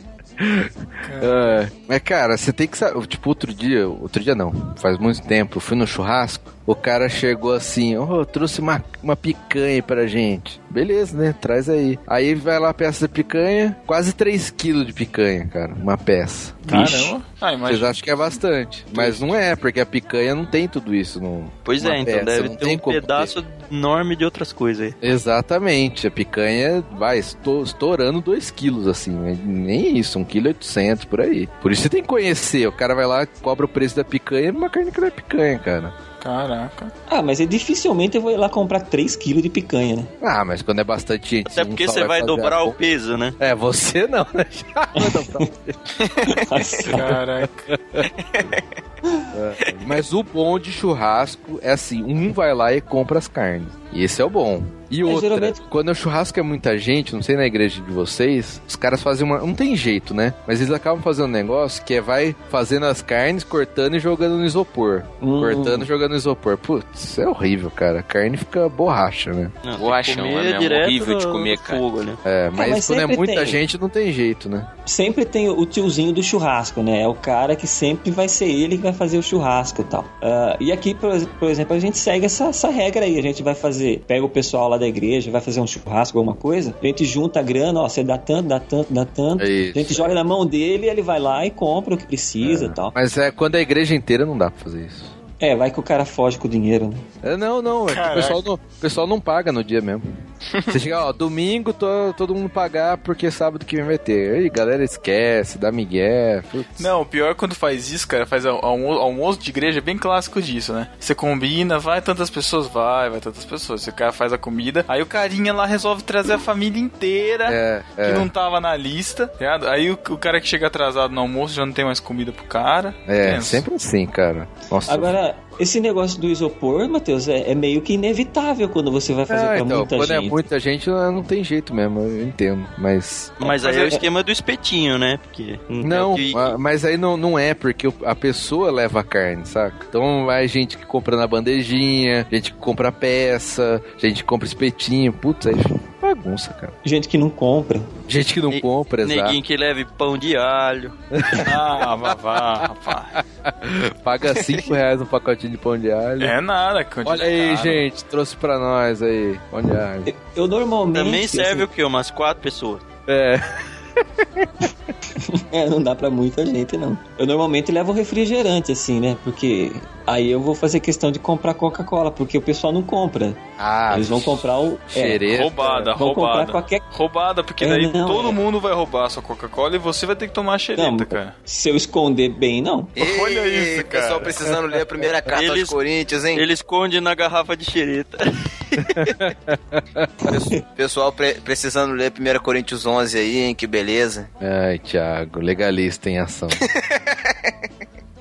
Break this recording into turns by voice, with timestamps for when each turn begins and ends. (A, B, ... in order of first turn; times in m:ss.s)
0:00.4-0:17.0 A
0:01.0-0:01.6 B
0:16.6-0:17.1 C
0:16.7-0:18.4 B
0:17.6-0:23.3 A
0:21.6-0:25.0 D
0:25.0-0:35.9 A
0:36.2-0:36.9 B
0:37.1-0:40.1 C
0:40.2-0:42.8 A
0:41.5-0:43.4 D
0:43.4-0:45.8 A
0:44.9-0:45.5 C
0:46.2-0:47.2 C
0:46.8-0:47.7 B
0:47.4-0:48.1 A
0:49.3-1:09.5 A
0:55.0-0:55.6 C
1:05.2-1:05.9 C
1:09.6-1:12.2 D
1:09.8-1:11.8 E
1:12.2-1:14.7 A
1:12.5-1:13.6 C
1:14.8-1:32.9 C
1:29.4-1:30.1 A
1:32.4-1:35.1 A
1:35.4-1:37.0 C
1:37.2-1:46.9 A
1:37.9-1:38.4 B
1:46.8-2:03.6 B
1:57.5-1:58.3 A
2:03.1-2:05.1 A
2:04.8-2:10.4 C
2:09.3-2:13.4 A
2:13.4-2:16.5 D
2:13.6-2:13.8 B
2:15.8-2:26.7 A
2:26.8-2:27.9 C
2:28.1-2:29.4 A
2:28.5-2:31.0 D
2:31.2-2:31.6 A
2:31.4-2:33.2 B
2:32.3-2:32.6 A
2:33.4-2:36.4 A
2:36.2-2:37.8 B
2:37.0-2:40.1 A
2:40.0-2:41.7 C
2:40.9-2:42.8 D
2:43.1-2:43.6 A
2:44.2-2:44.7 A
2:45.2-2:55.2 C
2:53.6-2:55.8 A
2:55.3-3:01.3 B
2:55.9-2:56.8 C
2:57.6-2:58.4 C
3:00.8-3:02.9 C
3:03.0-3:06.4 E
3:03.0-3:04.4 B
3:05.3-3:05.8 D
3:06.3-3:09.0 D
3:08.9-3:10.3 A
3:10.3-3:10.6 C
3:10.6-3:14.3 E
3:14.4-3:16.6 A
3:16.6-3:17.0 E